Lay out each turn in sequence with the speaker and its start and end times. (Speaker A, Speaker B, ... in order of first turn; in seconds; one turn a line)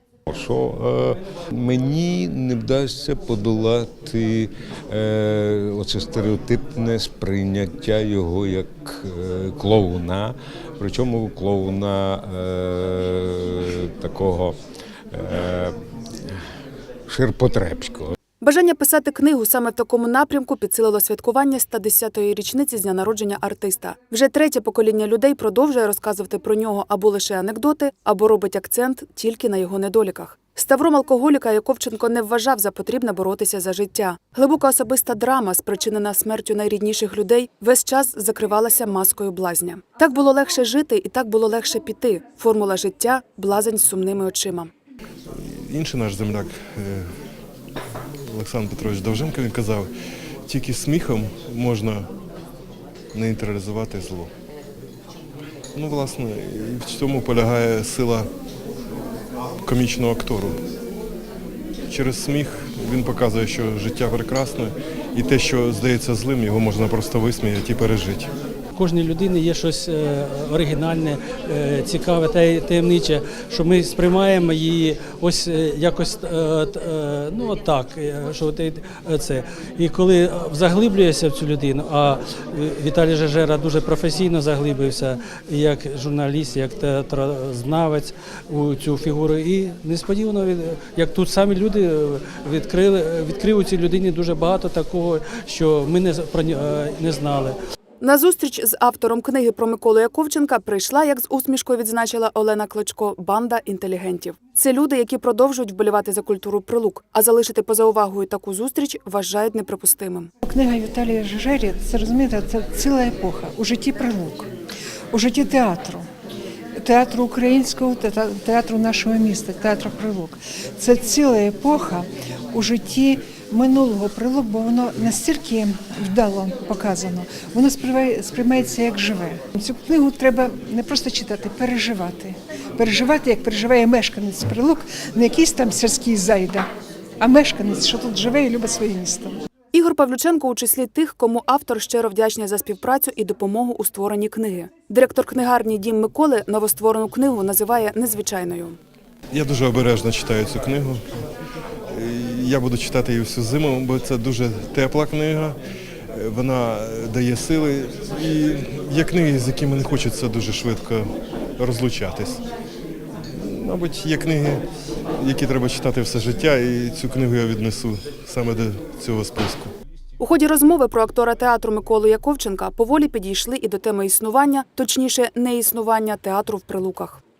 Speaker A: 0.3-14.6
Speaker A: 15.1-15.8
Speaker A: 17.1-18.1
Speaker B: 18.4-44.7
Speaker C: 45.3-47.1
Speaker C: 48.3-49.9
Speaker C: 50.5-52.1
Speaker C: 53.1-54.3
Speaker C: 55.7-58.3
Speaker C: 59.6-60.6
Speaker C: 61.9-68.3
Speaker D: 68.7-97.6
Speaker B: 98.0-110.3
Speaker E: 110.4-114.5
Speaker E: 115.1-116.0
Speaker E: 116.8-136.7
Speaker E: 137.2-139.3
Speaker B: 139.7-148.8
Speaker C: 149.3-151.0
Speaker C: 151.9-155.6
Speaker C: 156.1-162.4
Speaker C: 163.4-164.6
Speaker C: 165.2-169.7
Speaker B: 170.2-177.2